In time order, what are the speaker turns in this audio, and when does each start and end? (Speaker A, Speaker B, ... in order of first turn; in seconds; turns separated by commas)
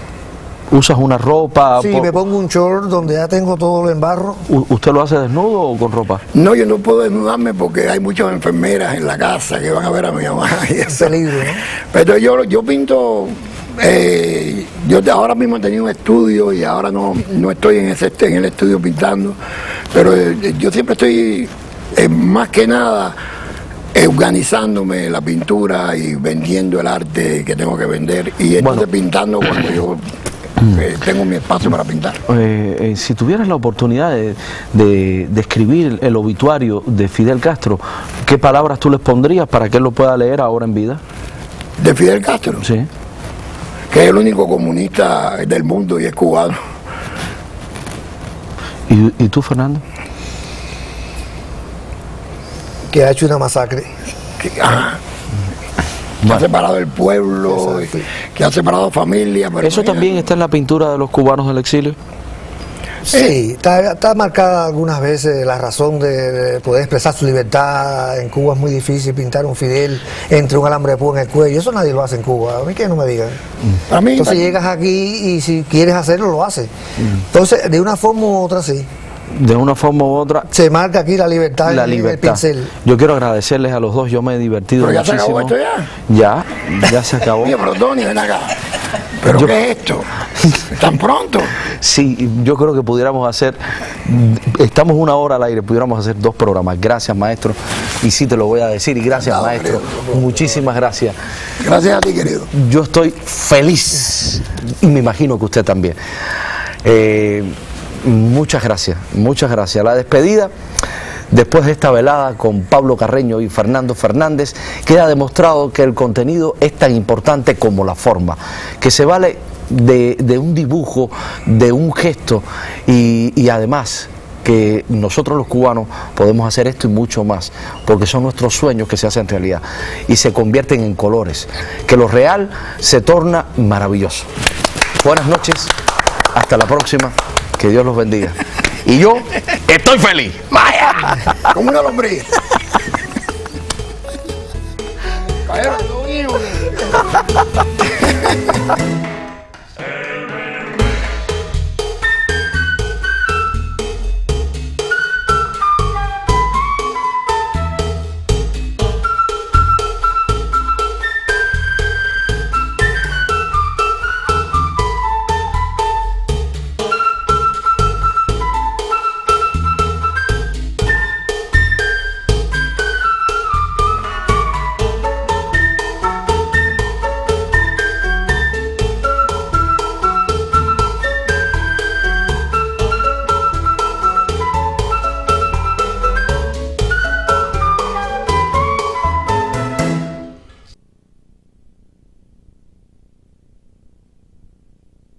Speaker A: 0.7-2.1, Speaker B: 1.8-4.5, Speaker A: 4.5-6.2, Speaker C: 6.3-11.2, Speaker B: 10.9-11.6, Speaker C: 11.9-19.4, Speaker C: 19.9-23.2, Speaker C: 23.9-30.0, Speaker A: 28.6-28.9, Speaker C: 30.7-32.2, Speaker A: 32.3-41.0, Speaker C: 41.8-42.6, Speaker A: 42.6-42.9, Speaker C: 43.9-46.6, Speaker A: 48.9-49.8, Speaker B: 52.9-53.9, Speaker C: 54.4-55.0, Speaker C: 56.2-60.2, Speaker B: 57.5-58.0, Speaker A: 59.6-62.0, Speaker B: 63.1-73.4, Speaker C: 73.9-74.5, Speaker B: 74.2-76.7, Speaker B: 77.3-78.9, Speaker A: 79.3-80.5, Speaker B: 80.5-82.7, Speaker A: 81.7-85.5, Speaker C: 84.8-85.9, Speaker A: 86.1-87.6, Speaker C: 87.4-88.6, Speaker C: 89.2-90.1, Speaker A: 89.3-89.5, Speaker C: 90.7-91.5, Speaker A: 91.8-101.2, Speaker C: 99.2-100.1, Speaker C: 101.6-102.5, Speaker A: 102.5-106.0, Speaker A: 106.8-110.5, Speaker A: 111.3-134.3, Speaker A: 135.0-135.7, Speaker A: 136.3-141.3, Speaker C: 141.5-142.3, Speaker C: 145.5-146.7